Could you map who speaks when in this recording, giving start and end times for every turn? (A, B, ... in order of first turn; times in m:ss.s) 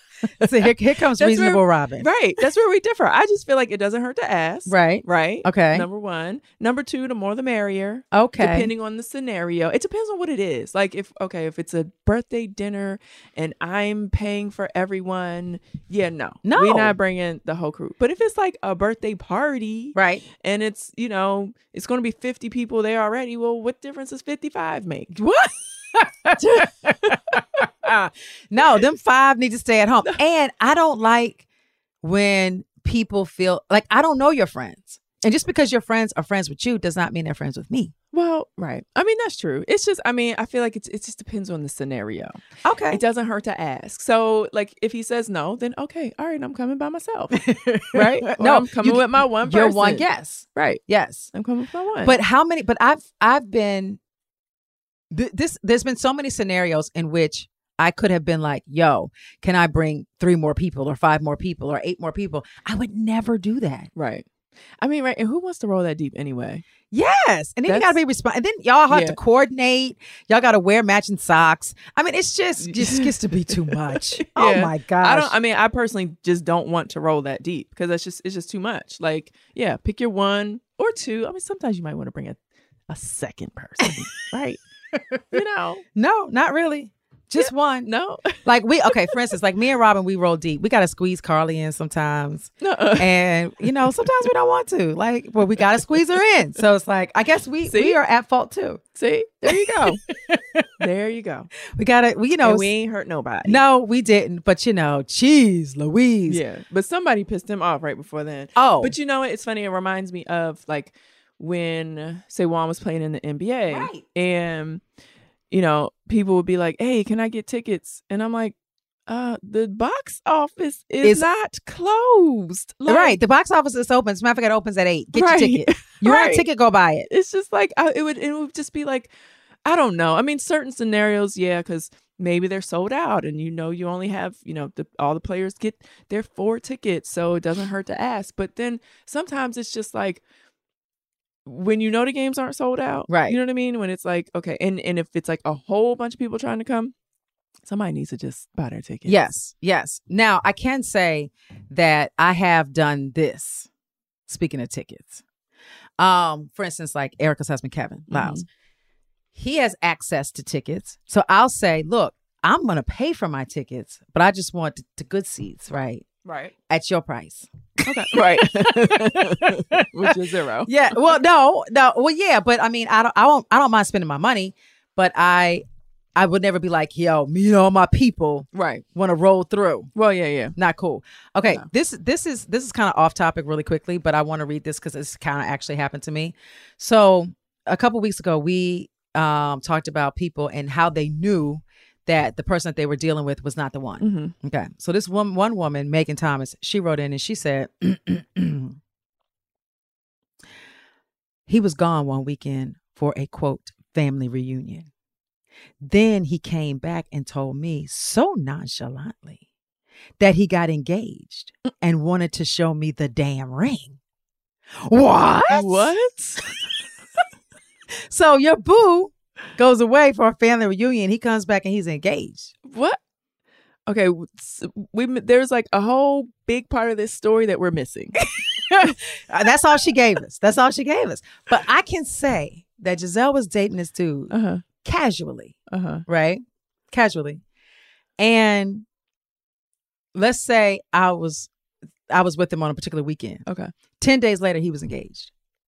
0:00.4-0:02.1 A
0:01.2-0:25.2 B
0:04.7-0:05.9 A
0:08.1-0:08.7 A
0:16.4-0:17.0 A
0:20.0-0:20.2 A
0:25.1-0:31.4 A
0:26.4-0:27.7 B
0:32.0-0:37.9 A
0:38.1-0:42.4 B
0:42.6-0:43.0 A
0:42.9-0:47.4 B
0:47.3-0:51.3 A
0:47.9-0:50.0 B
0:50.6-0:50.8 B
0:51.3-0:52.2 B
0:52.0-0:54.0 A
0:55.1-1:03.9 A
1:04.0-1:04.3 B
1:04.8-1:06.6 B
1:06.9-1:15.3 A
1:07.7-1:08.0 B
1:08.9-1:09.2 B
1:12.6-1:22.4 B
1:22.9-1:24.6 B
1:25.0-1:25.4 A
1:25.3-1:25.8 B
1:26.0-1:27.9 A
1:27.4-1:28.4 B
1:28.4-1:38.8 A
1:32.6-1:34.0 B
1:37.7-1:38.0 B
1:39.0-1:40.0 B
1:39.5-1:40.7 A
1:40.8-1:41.5 B
1:41.7-1:42.7 A
1:42.4-1:43.6 B
1:43.4-1:46.4 A
1:46.3-1:54.8 B
1:48.6-1:49.0 A
1:53.7-1:54.1 A
1:55.5-1:58.6 B
1:59.1-2:03.2 B
2:02.9-2:07.1 A
2:05.1-2:06.5 B
2:07.1-2:09.1 B
2:09.6-2:20.2 B
2:21.5-2:26.9 B
2:23.1-2:23.4 A
2:27.6-2:29.2 B
2:29.1-2:33.7 A
2:34.3-2:35.2 A
2:36.0-2:38.4 A
2:38.1-2:38.5 B
2:39.4-2:46.1 A
2:46.2-2:46.5 B
2:46.7-2:50.2 A
2:47.8-2:51.0 B
2:50.7-2:55.6 A
2:56.2-2:59.9 A
2:58.5-2:58.8 B
3:00.0-3:00.5 B
3:00.6-3:18.8 A
3:14.0-3:14.3 B
3:21.5-3:24.9 A
3:25.8-3:29.4 A
3:30.2-3:34.0 A
3:34.8-3:35.9 A
3:35.5-3:36.6 B
3:38.1-3:42.5 A
3:42.7-3:43.0 B
3:43.9-3:49.0 B
3:48.4-3:55.6 A
3:54.3-3:54.6 B
3:55.7-3:56.0 B
3:56.1-3:57.4 A
3:58.2-3:58.9 A
4:00.2-4:01.5 A
4:02.1-4:03.4 A
4:04.0-4:05.3 A